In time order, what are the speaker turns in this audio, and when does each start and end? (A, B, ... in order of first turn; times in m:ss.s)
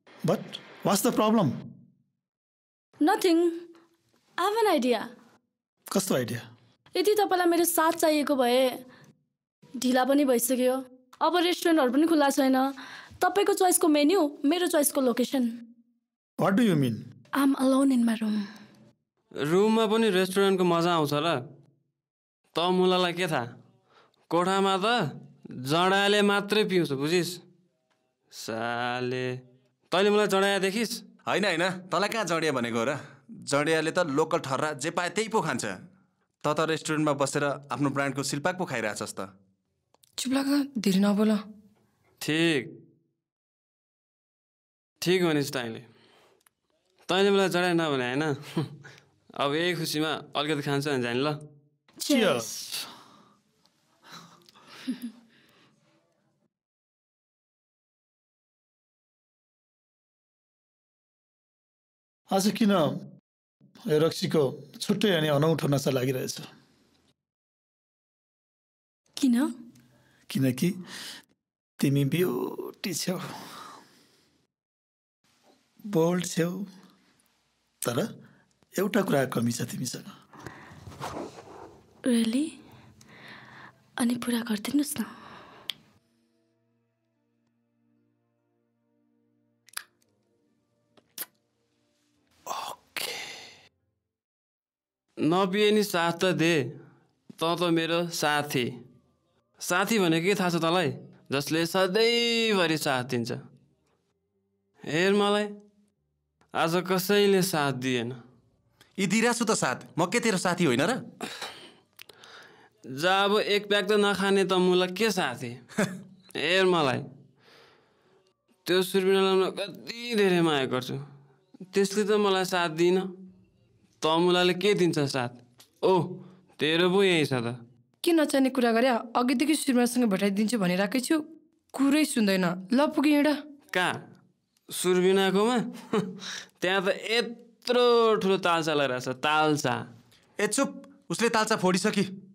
0:00.2-0:01.5 A
0:03.0-0:03.6 B
0:04.4-0:05.1 B
0:05.9-0:06.5 A
0:07.0-0:08.8 B
0:09.8-0:15.5 B
0:16.4-0:17.0 A
0:17.4-0:18.5 B
0:19.4-0:21.4 C
0:22.6-0:23.5 C
0:24.3-0:25.0 C
0:25.6-0:27.4 C
0:28.3-0:29.4 C
0:29.9-0:31.0 C
0:31.3-0:35.8 D
0:36.4-0:39.3 D
0:40.2-0:41.4 E
0:42.2-0:42.7 C
0:45.0-0:45.9 C
0:47.1-0:48.7 C
0:49.4-0:51.4 C
0:52.0-0:52.6 B
0:52.0-0:52.8 A
1:02.3-1:03.0 A
1:03.9-1:06.5 A
1:09.2-1:09.5 B
1:10.3-1:10.7 A
1:11.8-1:13.4 A
1:15.9-1:16.7 A
1:17.8-1:18.1 A
1:18.8-1:20.1 A
1:22.1-1:22.5 B
1:24.0-1:25.1 B
1:32.5-1:33.3 A
1:35.2-1:36.8 C
1:37.4-1:38.8 C
1:39.6-1:43.4 C
1:44.9-1:45.5 C
1:46.6-1:48.2 C
1:49.0-1:51.0 D
1:52.9-1:55.6 C
1:56.4-1:57.1 C
1:58.6-2:01.1 C
2:01.7-2:03.1 C
2:04.0-2:07.6 C
2:08.0-2:11.2 E
2:11.7-2:13.4 E
2:13.7-2:14.0 C
2:14.7-2:19.9 C
2:20.4-2:22.1 D